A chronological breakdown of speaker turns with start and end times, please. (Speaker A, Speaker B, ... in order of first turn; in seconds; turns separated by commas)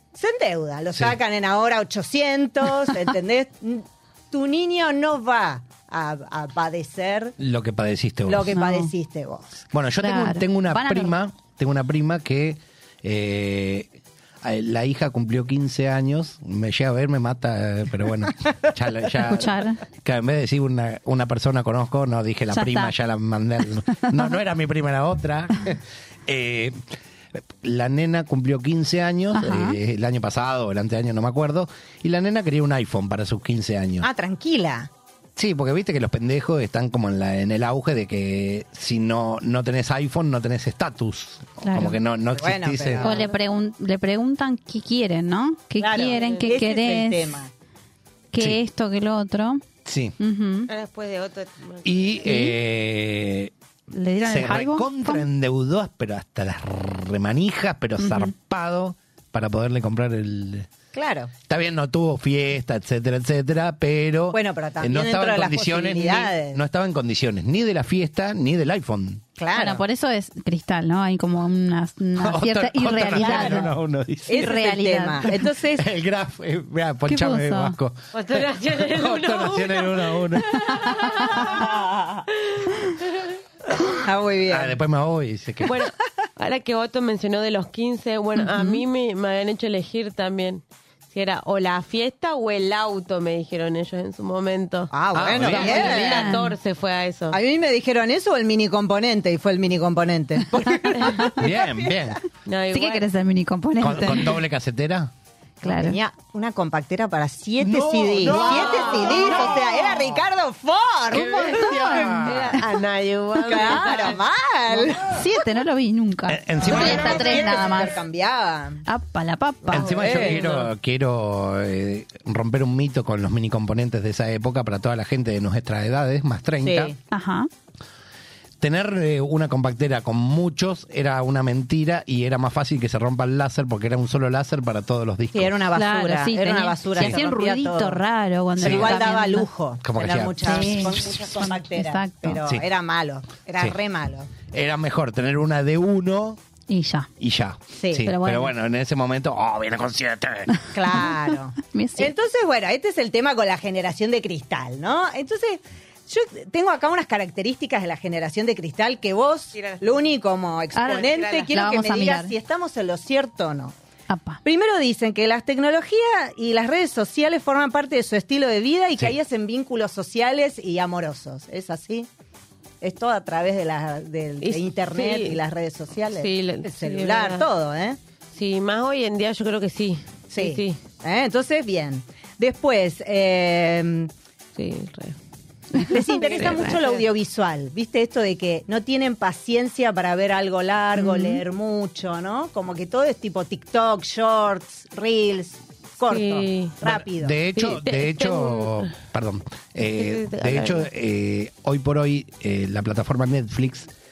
Speaker A: 0.1-7.4, Speaker B: 0.9-1.2, Speaker B: 7.4-8.6, Speaker A: 8.3-9.7, Speaker C: 8.5-8.9, Speaker B: 9.7-13.9, Speaker C: 10.0-11.1, Speaker B: 14.4-26.8, Speaker C: 19.2-19.8, Speaker C: 22.5-22.9, Speaker C: 23.9-24.3, Speaker B: 27.4-34.1, Speaker C: 29.3-29.8, Speaker A: 34.0-34.9, Speaker B: 35.4-43.2, Speaker C: 41.6-42.0, Speaker A: 42.3-43.3, Speaker C: 43.0-47.3, Speaker A: 45.8-47.5, Speaker D: 46.2-46.5, Speaker C: 48.3-49.6, Speaker B: 49.9-50.1, Speaker C: 50.2-50.7, Speaker D: 50.7-52.2, Speaker B: 51.9-53.5, Speaker C: 52.2-52.6, Speaker C: 53.9-55.2, Speaker B: 54.2-60.7, Speaker C: 58.0-58.3, Speaker A: 60.9-61.3, Speaker B: 61.5-69.2, Speaker A: 64.3-66.6, Speaker A: 69.4-69.8, Speaker C: 69.5-73.7, Speaker B: 72.2-74.6, Speaker A: 73.1-73.7, Speaker A: 74.3-75.9, Speaker C: 74.3-75.3, Speaker B: 75.8-80.6, Speaker C: 77.1-77.8, Speaker D: 78.1-81.7, Speaker C: 81.0-81.4, Speaker D: 82.4-83.3, Speaker A: 83.9-84.8, Speaker B: 84.5-85.8, Speaker D: 85.7-97.4, Speaker C: 88.4-88.8, Speaker A: 94.9-96.4, Speaker B: 95.1-96.1, Speaker C: 95.5-96.5, Speaker A: 97.3-102.2, Speaker C: 101.0-101.3, Speaker B: 101.3-102.2, Speaker D: 102.5-103.0, Speaker C: 102.7-104.4, Speaker B: 103.8-105.1, Speaker A: 105.6-112.1, Speaker C: 105.6-106.0, Speaker B: 107.7-109.6, Speaker C: 108.3-108.9, Speaker D: 108.3-109.3, Speaker B: 111.1-112.6, Speaker C: 111.5-112.3, Speaker D: 111.6-114.2, Speaker A: 113.4-115.2, Speaker C: 115.1-118.0, Speaker B: 116.3-117.5, Speaker A: 116.6-118.8, Speaker C: 118.9-120.4, Speaker A: 119.7-120.4, Speaker B: 119.7-126.9, Speaker A: 126.6-127.0, Speaker C: 127.1-127.5, Speaker B: 128.6-135.6, Speaker A: 135.3-138.0, Speaker C: 135.7-139.5, Speaker A: 138.6-144.3, Speaker B: 138.6-139.1, Speaker B: 139.8-141.2, Speaker C: 140.4-142.4, Speaker B: 144.5-146.4, Speaker C: 146.7-147.1, Speaker B: 147.2-150.5, Speaker A: 147.8-148.1, Speaker C: 148.0-148.5, Speaker C: 150.5-152.1, Speaker A: 150.7-163.8, Speaker D: 159.6-159.9, Speaker C: 160.8-162.3, Speaker D: 160.9-161.5, Speaker C: 164.1-164.4, Speaker A: 164.4-172.1, Speaker A: 172.8-178.0, Speaker D: 174.4-175.4, Speaker D: 176.1-177.5, Speaker D: 178.3-180.8, Speaker A: 180.3-184.1, Speaker D: 184.6-185.2, Speaker C: 185.7-186.6, Speaker A: 185.8-197.4, Speaker D: 186.2-187.0, Speaker C: 191.0-191.3, Speaker D: 196.1-196.8, Speaker B: 196.8-203.9, Speaker D: 197.5-198.9, Speaker D: 199.9-200.9